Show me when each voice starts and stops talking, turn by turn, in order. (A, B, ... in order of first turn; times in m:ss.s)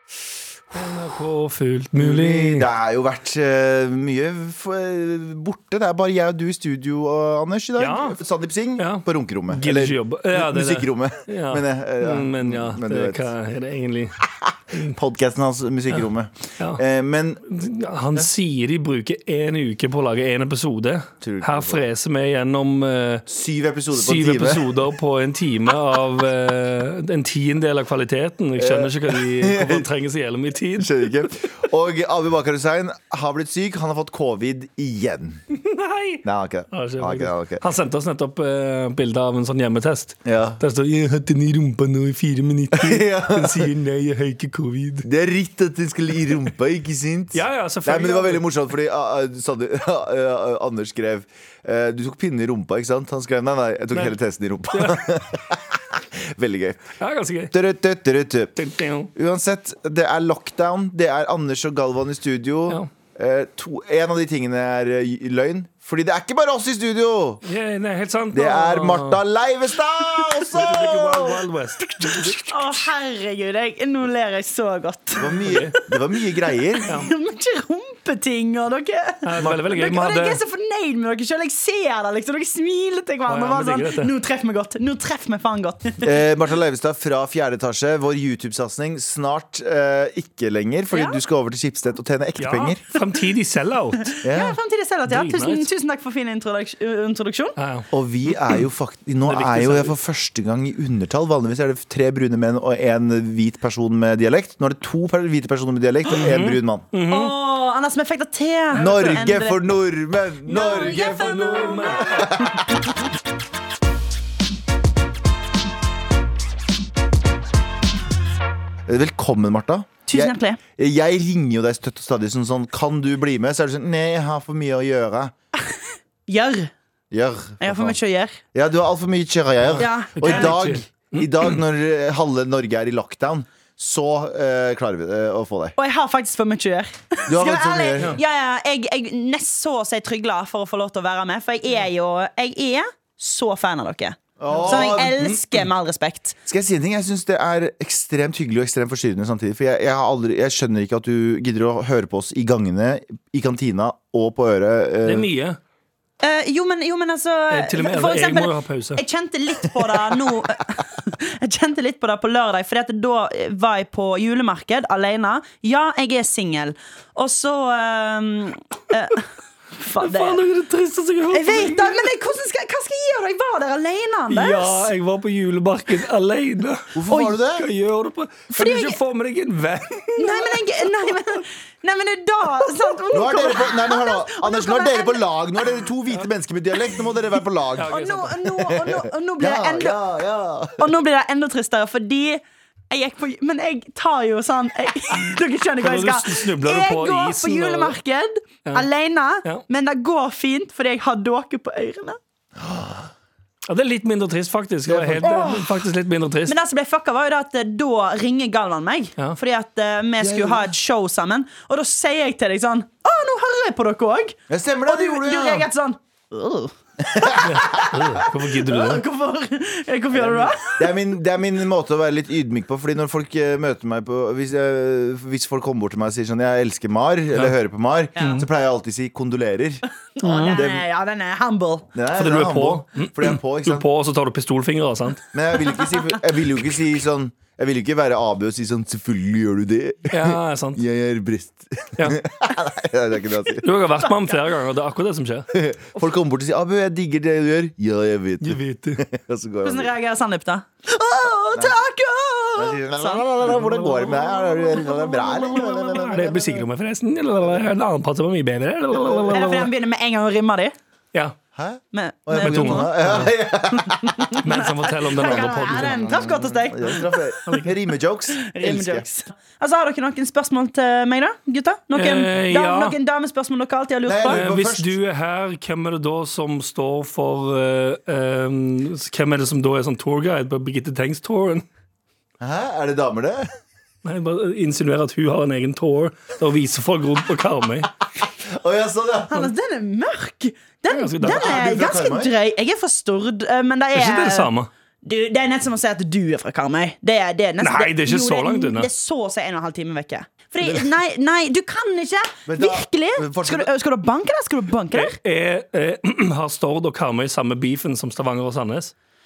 0:00.7-0:02.7 A
0:02.0-0:13.2 B
0:07.8-0:08.2 A
0:08.8-0:14.2 A
0:14.7-0:17.4 B
0:17.5-0:23.2 A
0:21.2-0:21.8 B
0:23.3-0:24.6 B
0:23.9-0:31.1 A
0:28.6-0:29.9 B
0:30.8-0:35.4 B
0:35.5-0:45.1 A
0:36.2-0:37.6 B
0:40.2-0:40.6 B
0:42.7-0:43.7 B
0:45.0-0:56.9 B
0:47.3-0:48.4 A
0:54.7-0:55.0 A
0:57.0-0:57.5 A
0:57.5-0:58.5 B
0:58.6-0:59.1 A
0:59.1-1:07.4 B
1:07.4-1:09.2 A
1:08.3-1:11.5 B
1:10.5-1:12.7 A
1:12.0-1:12.4 B
1:12.4-1:15.9 C
1:15.2-1:16.9 B
1:15.4-1:15.7 A
1:16.7-1:26.2 C
1:19.2-1:20.4 A
1:19.4-1:19.6 B
1:23.3-1:24.1 A
1:26.0-1:32.8 B
1:30.9-1:31.2 C
1:32.4-1:34.1 A
1:34.1-1:37.6 C
1:34.2-1:34.6 B
1:35.1-1:35.7 A
1:37.6-1:37.9 A
1:37.9-1:46.8 B
1:39.2-1:39.9 A
1:46.1-1:47.3 A
1:47.1-1:49.6 C
1:48.7-1:49.2 A
1:48.7-1:52.6 B
1:50.4-1:52.5 C
1:50.5-1:52.6 A
1:58.8-2:05.3 B
2:00.0-2:00.6 C
2:05.7-2:06.7 C
2:07.1-2:08.0 B
2:07.6-2:08.4 C
2:08.5-2:15.7 B
2:09.7-2:11.6 A
2:09.8-2:10.6 C
2:15.8-2:26.4 C
2:17.3-2:18.2 B
2:24.4-2:25.3 B
2:24.6-2:25.4 A
2:26.5-2:35.3 B
2:35.0-2:35.6 A
2:36.2-2:49.2 C
2:37.5-2:39.0 A
2:49.7-2:50.4 C
2:50.0-2:52.1 A
2:51.3-2:54.9 C
2:54.3-2:57.0 A
2:56.9-2:57.7 B
2:57.1-2:57.4 C
2:57.6-3:01.2 A
2:58.5-2:59.0 C
3:00.2-3:05.2 C
3:03.1-3:07.9 B
3:07.8-3:08.4 A
3:07.9-3:10.0 C
3:08.4-3:10.9 B
3:10.8-3:22.2 C
3:15.8-3:18.0 A
3:22.6-3:23.1 B
3:23.7-3:26.6 A
3:24.8-3:25.6 B
3:26.4-3:40.8 C
3:30.2-3:30.7 B
3:34.5-3:35.7 B
3:37.0-3:37.9 B
3:37.4-3:39.0 A
3:40.1-3:50.8 B
3:48.2-3:48.4 A
3:50.2-3:51.9 C
3:51.9-3:53.8 B
3:52.1-3:55.2 A
3:55.3-4:03.6 B
4:00.1-4:00.8 A
4:03.6-4:05.5 A
4:05.5-4:09.9 B
4:08.4-4:09.0 A
4:09.6-4:13.3 C
4:12.6-4:16.6 B
4:13.4-4:19.7 A
4:14.8-4:15.7 C
4:19.3-4:20.7 C
4:21.6-4:24.4 B
4:21.9-4:27.4 C
4:22.4-4:23.3 A
4:24.4-4:26.1 A
4:25.6-4:29.0 B
4:28.4-4:34.4 C
4:31.9-4:32.9 A
4:34.0-4:34.9 B
4:34.3-4:41.6 A
4:42.4-4:43.5 B
4:44.0-4:47.9 A
4:48.4-4:49.5 B
4:49.3-4:54.5 C
4:50.9-4:51.6 A
4:51.2-4:52.3 B
4:53.9-4:54.7 A
4:55.0-5:05.2 C
4:57.6-4:58.9 A
5:02.5-5:03.7 B
5:04.9-5:08.9 A